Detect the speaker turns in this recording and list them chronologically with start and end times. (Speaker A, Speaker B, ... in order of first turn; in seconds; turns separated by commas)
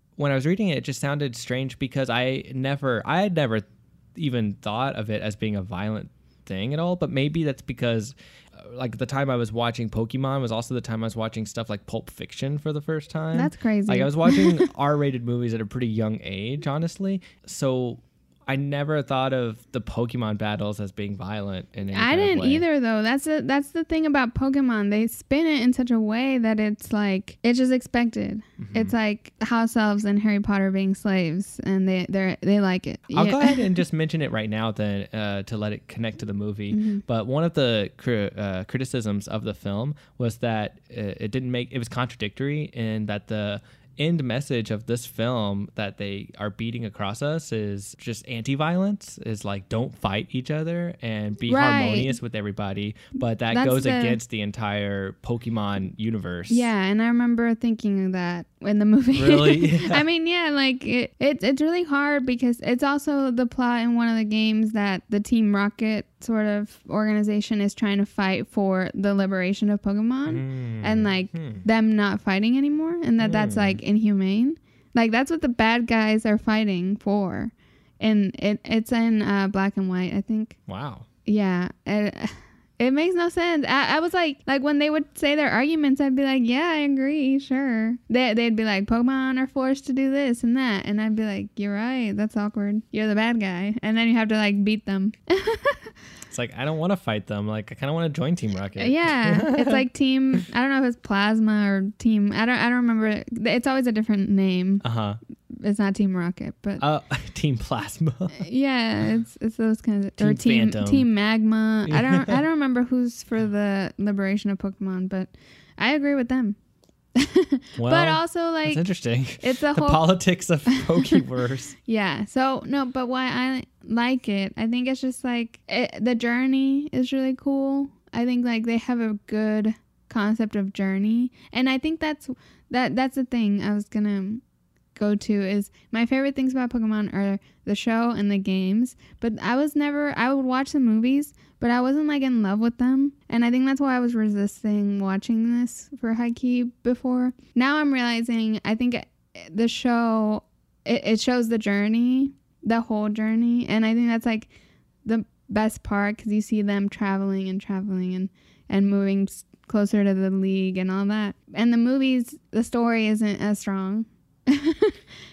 Speaker A: 0.2-22.6, Speaker B: 13.3-14.7, Speaker B: 21.9-33.8, Speaker A: 28.6-28.9, Speaker A: 33.1-56.7, Speaker B: 36.7-37.0, Speaker B: 51.5-52.2, Speaker B: 53.5-54.2, Speaker B: 56.5-80.6, Speaker A: 59.1-60.0, Speaker A: 70.3-71.7, Speaker A: 73.2-73.8, Speaker A: 80.7-81.1, Speaker B: 81.3-95.9, Speaker A: 96.3-99.8, Speaker B: 98.8-104.8, Speaker A: 104.8-105.2, Speaker B: 105.5-106.8, Speaker A: 106.8-108.4, Speaker B: 108.3-116.6, Speaker A: 110.2-111.1, Speaker A: 111.9-112.4, Speaker B: 117.2-118.8, Speaker A: 117.8-121.8, Speaker B: 119.4-120.2, Speaker B: 120.7-121.2, Speaker B: 121.8-134.4, Speaker B: 134.9-154.5, Speaker B: 155.1-165.0